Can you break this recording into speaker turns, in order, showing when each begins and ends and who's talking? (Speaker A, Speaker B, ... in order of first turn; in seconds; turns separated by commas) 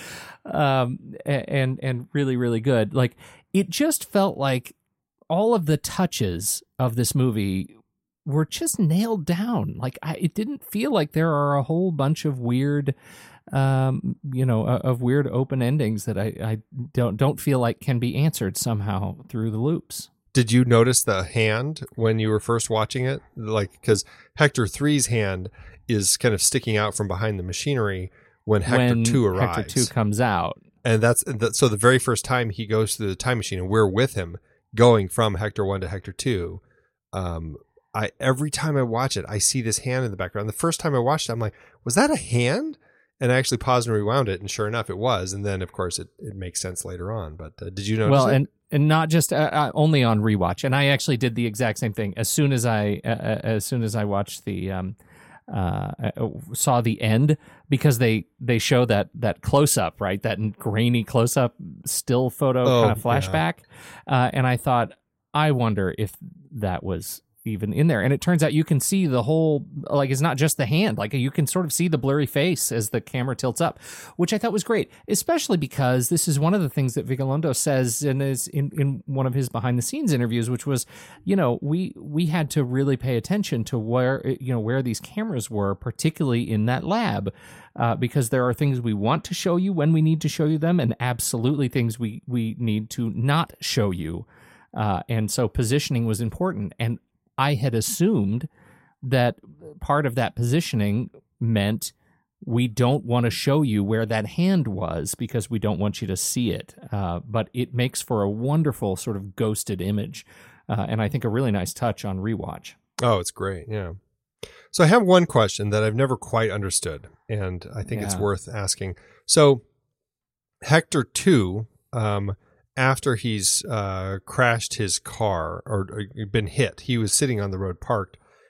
Speaker A: 0.5-4.8, Speaker A: 5.3-7.7, Speaker A: 8.2-12.9, Speaker A: 13.5-20.1, Speaker B: 20.3-29.9, Speaker A: 28.6-30.6, Speaker B: 30.8-36.6, Speaker B: 37.1-48.4, Speaker A: 48.0-55.0, Speaker A: 55.5-98.5, Speaker B: 62.6-63.4, Speaker A: 99.0-112.8, Speaker B: 113.0-114.0, Speaker B: 114.7-119.6, Speaker A: 117.9-118.2, Speaker B: 120.6-128.2